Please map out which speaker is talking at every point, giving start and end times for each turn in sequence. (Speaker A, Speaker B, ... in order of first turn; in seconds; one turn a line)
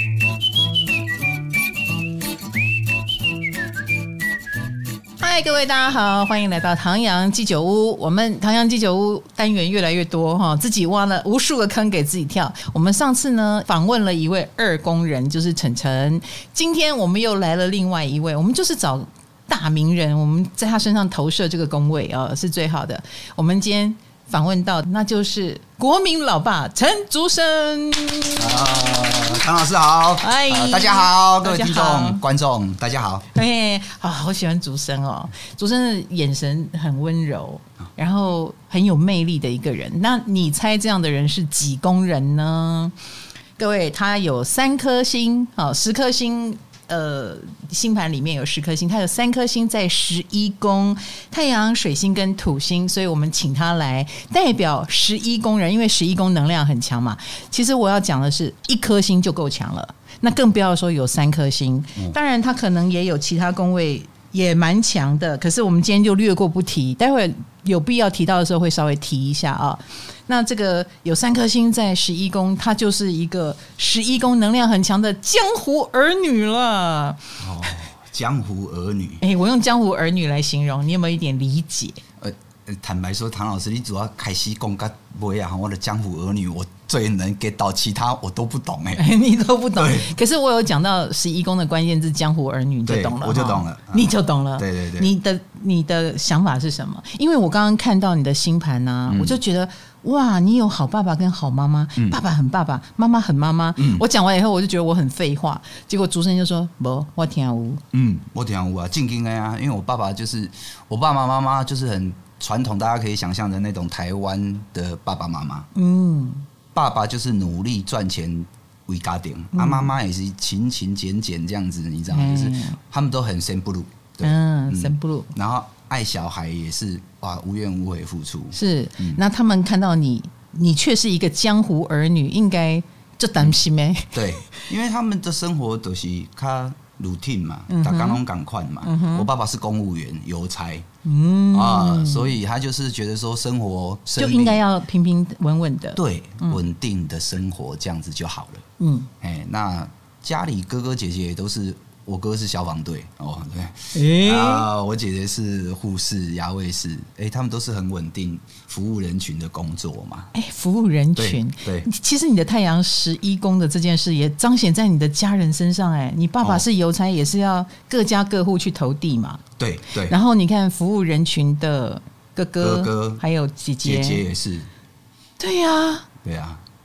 Speaker A: 5.2-29.2
Speaker B: 28.4-33.3
Speaker A: 30.2-32.2
Speaker A: 33.3-42.9
Speaker A: 43.6-77.2
Speaker B: 77.4-79.2
Speaker A: 79.2-82.0
Speaker B: 82.2-89.0
Speaker A: 88.9-107.8
Speaker B: 89.8-90.1
Speaker B: 92.8-95.1
Speaker B: 99.1-99.4
Speaker B: 103.8-104.0
Speaker B: 107.9-115.7
Speaker A: 115.7-116.5
Speaker B: 116.7-129.2
Speaker A: 119.5-119.9
Speaker A: 122.1-122.8
Speaker A: 124.2-125.3
Speaker A: 128.5-134.7
Speaker B: 134.1-140.9
Speaker A: 137.7-138.2
Speaker A: 138.8-139.3
Speaker A: 141.0-142.3
Speaker B: 141.5-144.6
Speaker A: 144.2-146.6
Speaker B: 145.9-148.6
Speaker A: 148.8-149.1
Speaker B: 149.2-160.3
Speaker A: 153.9-154.7
Speaker A: 160.3-169.4
Speaker B: 161.2-161.9
Speaker B: 169.6-170.2
Speaker A: 170.0-174.2
Speaker B: 172.6-173.2
Speaker B: 173.8-174.7
Speaker A: 175.4-176.1
Speaker B: 176.2-176.6